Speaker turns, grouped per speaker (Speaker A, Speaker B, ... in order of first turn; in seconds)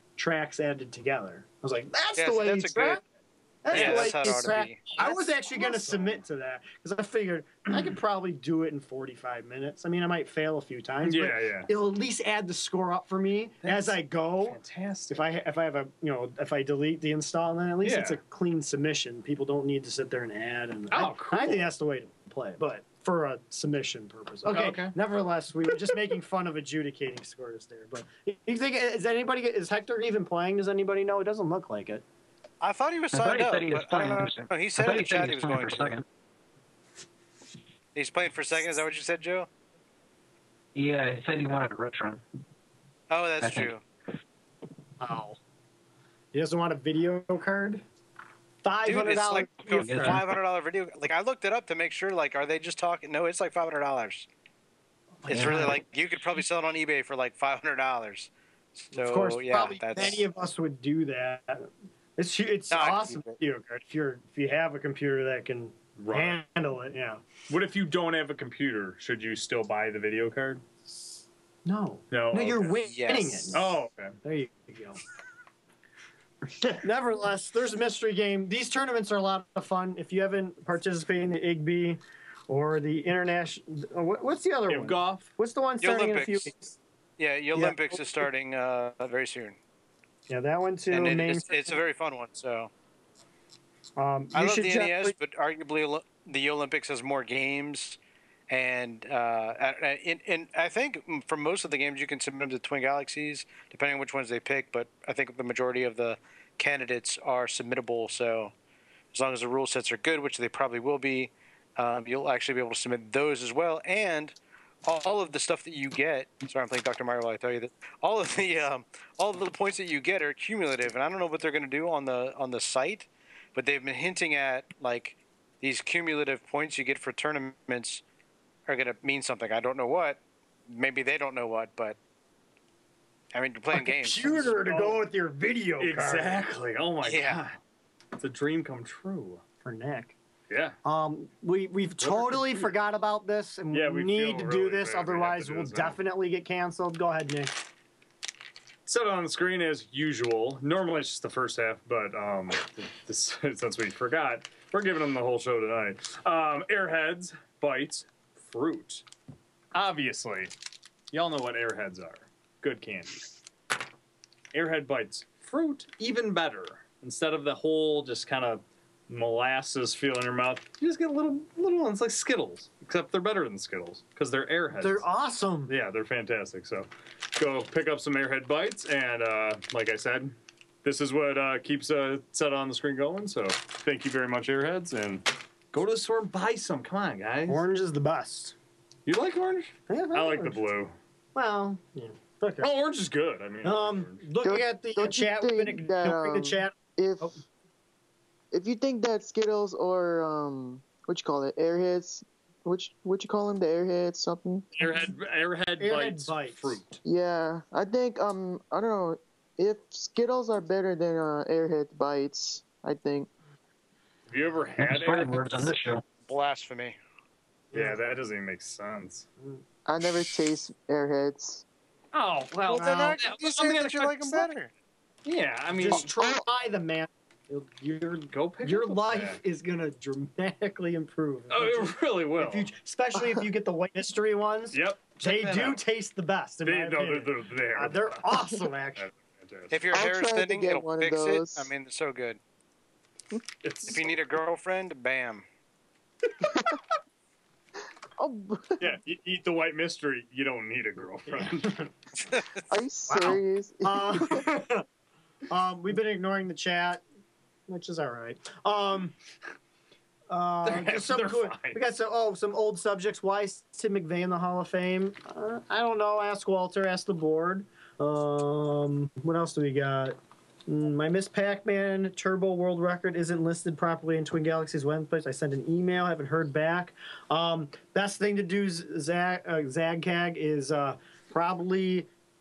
Speaker A: 0.2-3.0, 3.6-14.6, 15.1-32.0, 45.0-45.4, 46.3-47.8, 48.6-50.2, 55.2-55.7, 58.9-67.2, 71.6-75.0, 76.6-86.7, 87.5-88.2, 90.3-91.8, 94.0-95.1, 133.7-136.4, 139.6-140.1, 140.8-147.6, 174.8-175.7, 187.5-188.5, 189.9-190.6, 191.3-192.7, 193.6-197.4, 205.8-206.8, 217.7-218.0, 225.7-239.0, 251.3-251.9, 253.1-254.8, 255.5-257.0, 257.7-259.1, 260.3-282.1
Speaker B: 2.1-3.0, 3.7-4.9, 32.6-35.9, 37.9-39.5, 43.1-43.8, 48.8-54.3, 55.3-60.2, 62.7-63.3, 72.8-73.6, 85.8-86.5, 87.2-89.6, 90.9-92.7, 94.3-98.0, 98.5-108.5, 109.1-128.0, 128.7-132.0, 133.3-134.5, 137.0-137.4, 216.3-217.0, 222.7-224.7, 239.7-242.4, 243.8-245.4, 252.3-252.6
Speaker C: 3.7-6.2, 11.0-11.7, 13.6-15.2, 17.8-18.2, 20.9-21.7, 24.5-24.9, 66.0-66.4, 67.5-70.6, 72.1-72.8, 73.5-74.2, 84.7-85.3, 134.5-135.0, 135.8-137.6, 138.2-139.4, 140.5-140.8, 142.0-142.7, 143.7-146.0, 148.8-159.0, 159.7-160.5, 161.1-163.3, 164.5-175.0, 175.7-187.6, 189.1-190.9, 192.6-194.2, 204.8-207.0, 214.3-215.7, 217.7-219.3, 222.1-224.5, 225.2-226.1, 228.3-229.4, 231.5-232.7, 234.7-235.8, 236.6-238.2, 239.0-239.8, 243.6-244.1, 248.8-251.7, 260.6-261.8
Speaker D: 33.1-36.0, 40.7-42.2, 43.4-43.7, 49.7-50.2, 55.3-55.8, 214.8-216.0
Speaker E: 194.4-197.3, 198.5-204.7, 207.0-213.3, 219.8-221.6, 239.9-241.7, 246.4-246.8, 248.2-248.8, 252.7-254.4